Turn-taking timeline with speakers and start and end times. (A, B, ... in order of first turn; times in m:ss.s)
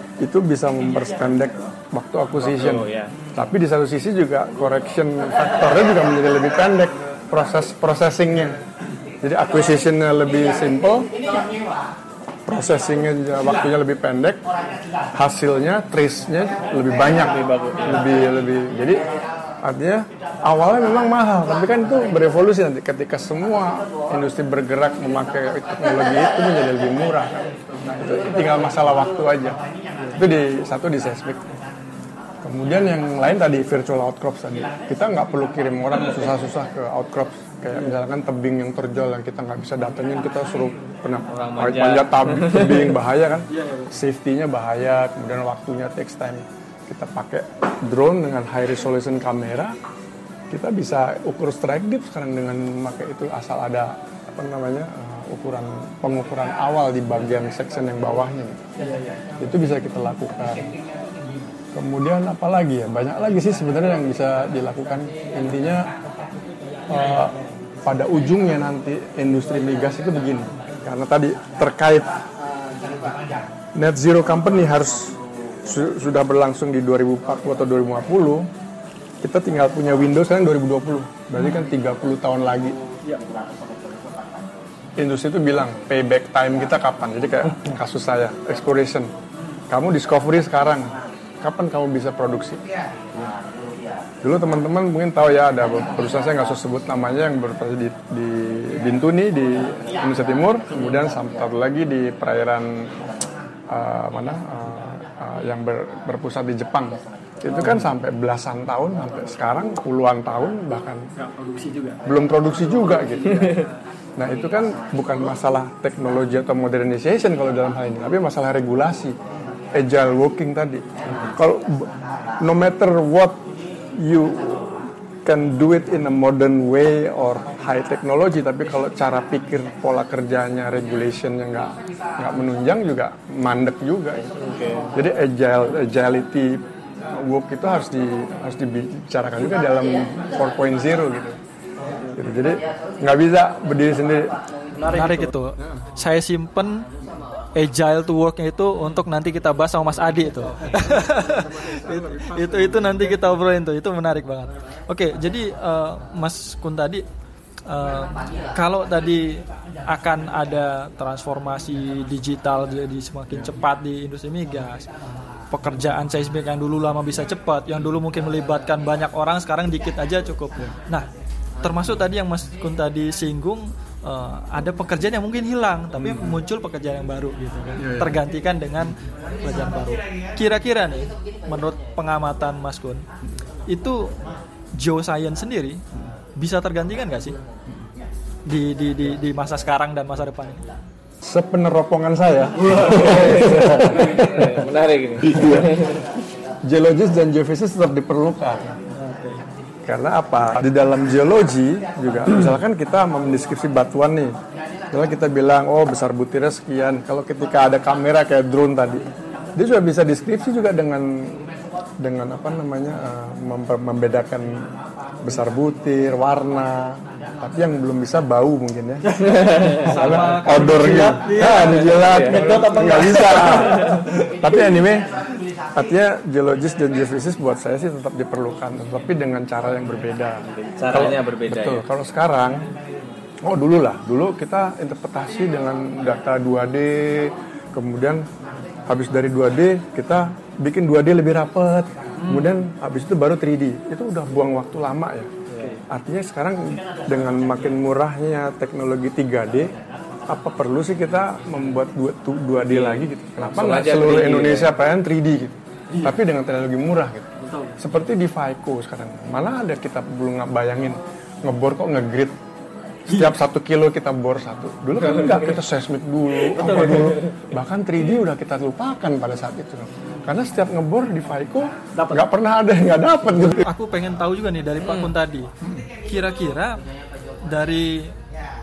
0:00.2-0:08.6 A
0:02.4-0:03.1 B
0:09.2-0:11.1 A
0:12.5-0:14.4 A
0:15.1-0:19.0 A
0:17.1-0:18.1 B
0:19.6-0:27.5 A
0:28.0-0:29.6 A
0:30.2-0:31.5 A
0:32.4-0:49.8 A
0:41.3-0:43.0 B
0:43.5-0:43.9 C
0:50.5-0:58.6 A
0:59.4-1:00.7 A
1:01.7-1:05.9 A
1:06.9-1:12.1 A
1:13.8-1:18.5 A
1:19.2-1:22.8 A
1:25.0-1:29.1 A
1:29.7-1:32.6 A
1:34.2-1:42.9 A
1:43.7-1:51.0 A
1:51.2-1:52.0 C
1:52.0-1:53.6 A
1:54.2-1:59.2 A
1:59.7-2:03.4 A
2:04.0-2:14.3 A
2:14.4-2:14.9 B
2:14.9-2:21.4 A
2:22.2-2:25.1 A
2:24.8-2:26.9 C
2:27.6-2:37.0 C
2:31.0-2:33.0 A
2:37.7-2:44.9 C
2:45.5-2:51.1 C
2:51.6-3:03.0 C
2:56.0-2:56.4 A
2:57.8-2:58.2 A
3:03.7-3:04.2 C
3:04.8-3:05.8 C
3:06.4-3:07.4 C
3:08.5-3:10.7 C
3:11.2-3:14.4 A
3:12.8-3:16.1 B
3:15.3-3:15.7 A
3:16.7-3:18.7 A
3:19.0-3:19.4 C
3:19.8-3:24.4 A
3:24.9-3:31.4 A
3:32.0-3:34.5 A
3:35.2-3:45.1 A
3:39.2-3:40.3 B
3:39.7-3:43.9 C
3:41.3-3:42.7 B
3:43.5-3:44.0 B
3:45.7-3:52.7 A
3:50.5-3:51.8 B
3:53.4-3:58.3 A
3:58.9-4:05.3 A
4:05.5-4:05.8 B
4:05.9-4:09.7 A
4:10.3-4:22.4 A
4:12.6-4:14.7 B
4:23.1-4:33.7 A
4:26.6-4:27.2 C
4:26.8-4:27.3 B
4:33.5-4:35.5 C
4:34.8-4:35.1 B
4:36.0-4:36.8 C
4:37.4-4:38.2 C